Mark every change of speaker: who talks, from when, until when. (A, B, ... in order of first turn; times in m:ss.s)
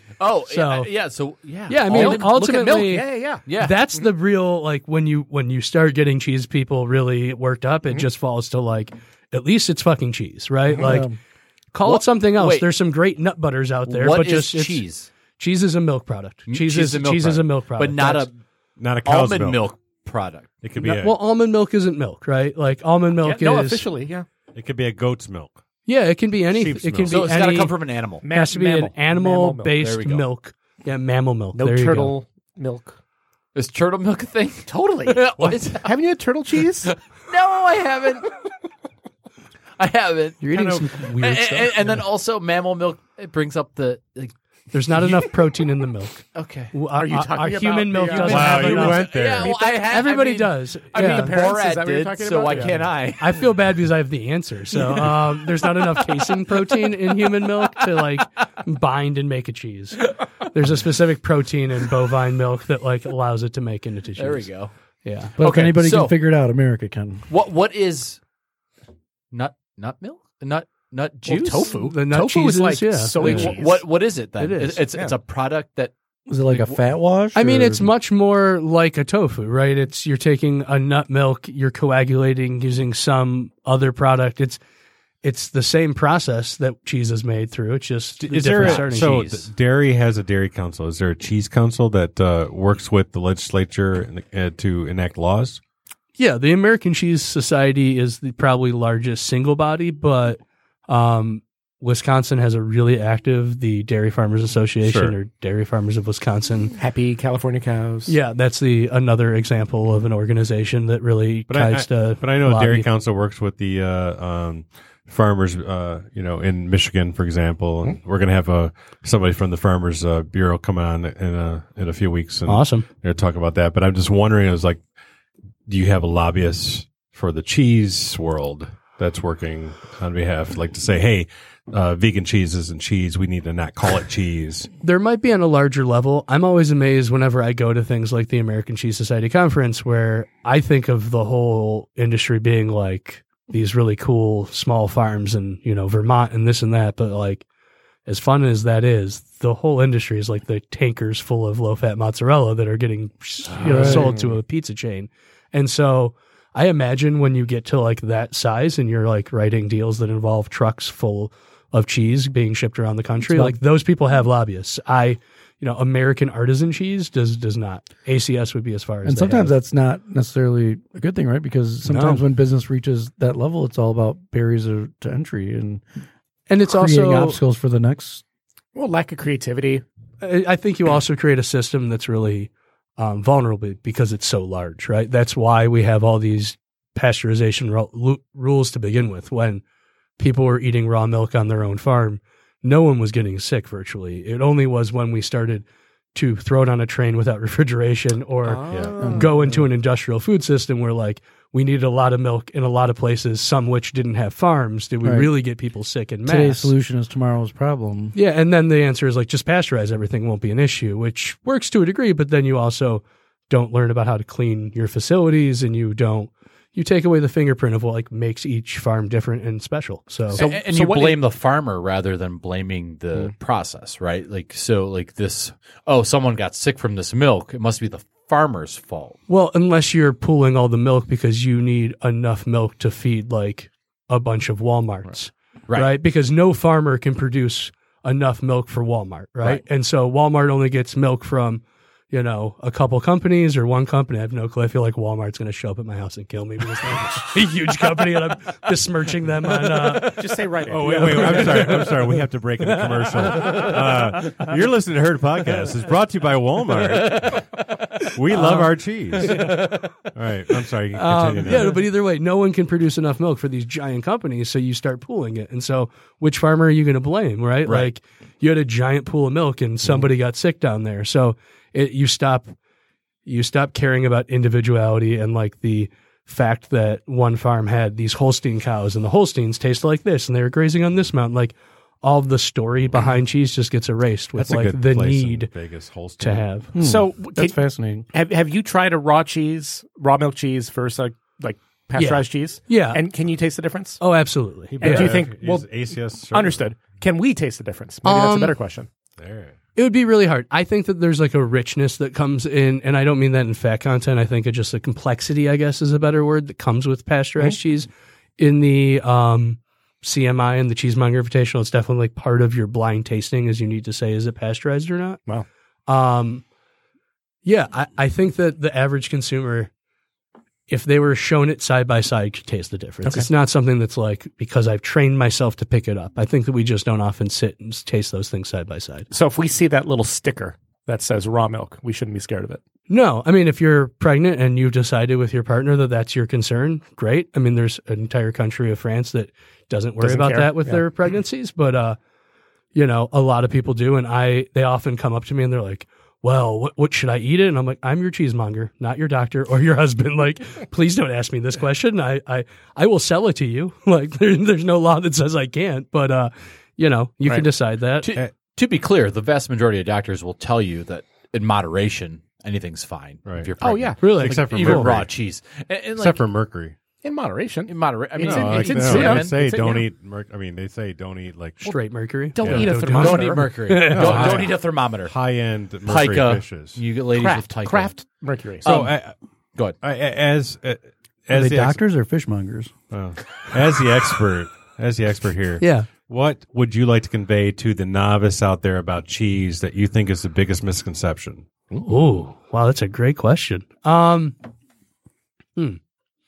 0:00.2-0:02.8 A
0:00.5-0:00.9 B
0:01.7-0:11.1 B
0:01.9-0:03.4 C
0:03.4-0:03.8 A
0:10.8-0:11.2 D
0:11.7-0:14.8 B
0:11.8-0:12.7 A
0:13.9-0:15.1 A
0:15.4-0:18.3 B
0:16.5-0:18.4 A
0:18.8-0:19.7 E
0:19.0-0:20.5 A
0:20.6-0:21.2 E
0:20.8-0:23.8 B
0:23.2-0:24.2 C
0:24.5-0:25.6 E
0:25.8-0:32.2 B
0:26.5-0:27.2 E
0:27.1-0:28.2 A
0:28.2-0:29.7 C
0:29.8-0:30.2 A
0:31.5-0:33.0 C
0:33.5-0:35.9 A
0:34.7-0:35.2 C
0:35.4-0:35.7 E
0:35.8-0:36.9 C
0:36.8-0:38.3 A
0:39.8-0:44.3 A
0:40.4-0:41.8 B
0:40.8-0:41.3 D
0:44.7-0:51.4 B
0:46.3-0:46.7 A
0:47.0-0:49.5 C
0:48.1-0:53.4 A
0:48.2-0:49.5 E
0:50.9-0:52.9 C
0:52.5-1:04.5 B
1:04.2-1:04.7 A
1:05.0-1:05.3 B
1:05.4-1:07.2 D
1:05.4-1:06.1 A
1:07.3-1:08.2 A
1:09.3-1:11.7 A
1:11.2-1:13.8 C
1:11.8-1:13.6 B
1:13.2-1:15.9 A
1:14.4-1:14.8 B
1:16.3-1:17.9 D
1:16.4-1:16.8 A
1:17.3-1:24.6 B
1:25.2-1:29.2 B
1:28.2-1:35.6 E
1:28.6-1:29.5 A
1:36.2-1:46.7 B
1:44.8-1:45.2 E
1:46.8-1:48.1 C
1:48.0-1:52.9 B
1:51.5-2:04.8 E
2:02.5-2:02.8 B
2:05.7-2:14.7 E
2:14.8-2:27.4 B
2:28.0-2:49.5 B
2:33.6-2:34.1 D
2:33.6-2:34.3 C
2:43.2-2:43.6 D
2:49.0-2:55.8 D
2:51.9-2:52.2 B
2:56.5-2:57.4 B
2:56.7-2:58.2 D
2:58.7-2:59.8 C
3:00.2-3:09.6 B
3:10.2-3:26.7 B
3:18.6-3:19.3 C
3:18.7-3:19.6 D
3:25.0-3:25.3 D
3:26.2-3:28.1 D
3:28.1-3:40.4 B
3:40.3-3:41.2 C
3:40.3-3:49.2 A
3:49.3-4:10.2 B
3:55.7-3:55.9 A
4:10.0-4:11.9 C
4:10.6-4:17.5 E
4:10.8-4:11.6 B
4:13.4-4:13.7 B
4:17.1-4:17.4 A
4:18.0-4:19.6 E
4:18.3-4:19.6 B
4:20.1-4:21.8 E
4:20.9-4:32.6 B
4:27.6-4:27.9 A
4:33.2-4:45.5 B
4:44.4-4:46.4 E
4:46.2-4:46.7 B
4:46.7-4:48.0 D
4:46.8-4:54.0 C
4:52.0-4:53.0 B
4:54.0-4:55.1 B
4:54.7-4:56.7 E
4:54.8-4:58.9 C
4:58.0-4:58.6 B
4:59.2-4:59.5 E
4:59.8-5:15.2 B
5:15.9-5:16.4 B
5:17.4-5:19.7 B
5:20.7-5:29.1 B
5:29.1-5:32.6 C
5:32.9-5:42.0 B
5:40.0-5:40.8 C
5:42.7-5:58.1 B
5:58.0-6:06.2 A
6:03.6-6:04.0 C
6:04.0-6:04.9 B
6:04.0-6:05.1 E
6:06.0-6:06.8 E
6:07.0-6:09.8 C
6:07.7-6:09.3 A
6:08.2-6:11.7 E
6:11.6-6:14.3 B
6:12.3-6:13.5 C
6:12.4-6:12.7 E
6:12.8-6:15.1 A
6:13.8-6:16.8 E
6:15.8-6:18.0 A
6:17.2-6:18.6 C
6:18.6-6:18.9 A
6:18.6-6:19.1 E
6:19.8-6:21.8 E
6:21.3-6:22.7 D
6:22.9-6:31.4 E
6:25.6-6:25.9 B
6:31.8-6:34.4 B